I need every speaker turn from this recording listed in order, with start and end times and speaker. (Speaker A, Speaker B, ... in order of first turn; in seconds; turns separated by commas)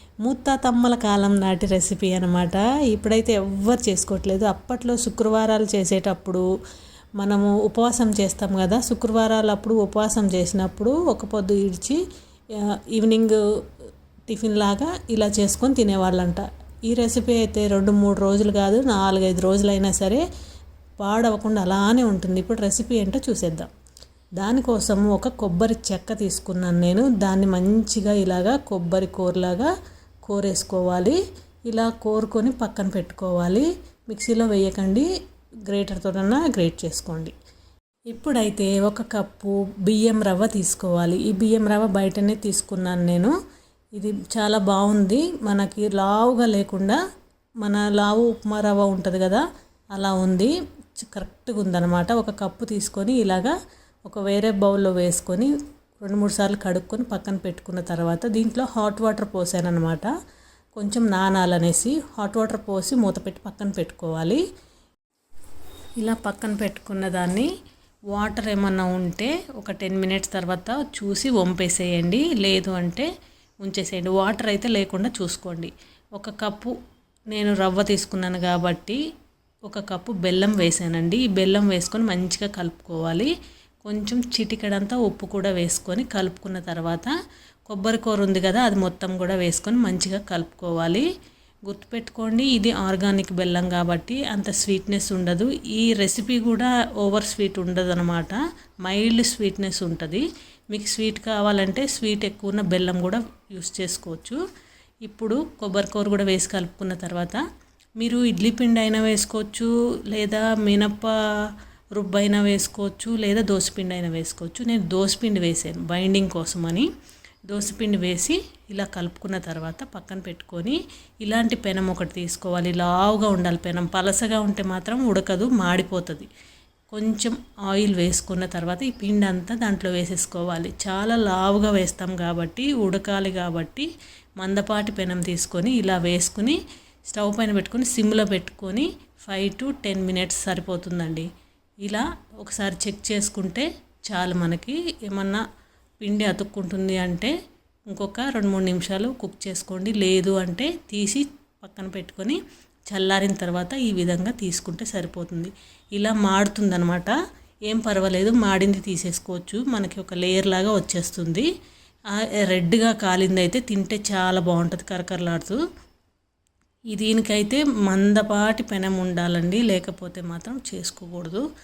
Speaker A: 0.2-6.4, Speaker A: 7.2-12.0, Speaker A: 12.5-13.4, Speaker A: 14.3-20.2, Speaker A: 21.0-23.7, Speaker A: 24.4-29.7, Speaker A: 30.2-35.1, Speaker A: 35.7-37.3, Speaker A: 38.1-43.3, Speaker A: 44.0-47.0, Speaker A: 47.6-49.4, Speaker A: 50.0-53.5, Speaker A: 54.0-55.5, Speaker A: 56.0-60.1, Speaker A: 60.8-64.4, Speaker A: 66.0-67.5, Speaker A: 68.1-73.1, Speaker A: 73.6-76.7, Speaker A: 77.3-79.0, Speaker A: 79.7-83.3, Speaker A: 83.8-87.1, Speaker A: 87.7-91.1, Speaker A: 91.7-104.4, Speaker A: 105.0-107.4, Speaker A: 108.0-111.1, Speaker A: 112.0-116.9, Speaker A: 117.5-126.3, Speaker A: 126.9-141.3, Speaker A: 141.8-145.4, Speaker A: 146.0-147.3, Speaker A: 147.9-157.1, Speaker A: 157.7-161.5, Speaker A: 162.4-165.6, Speaker A: 166.9-171.4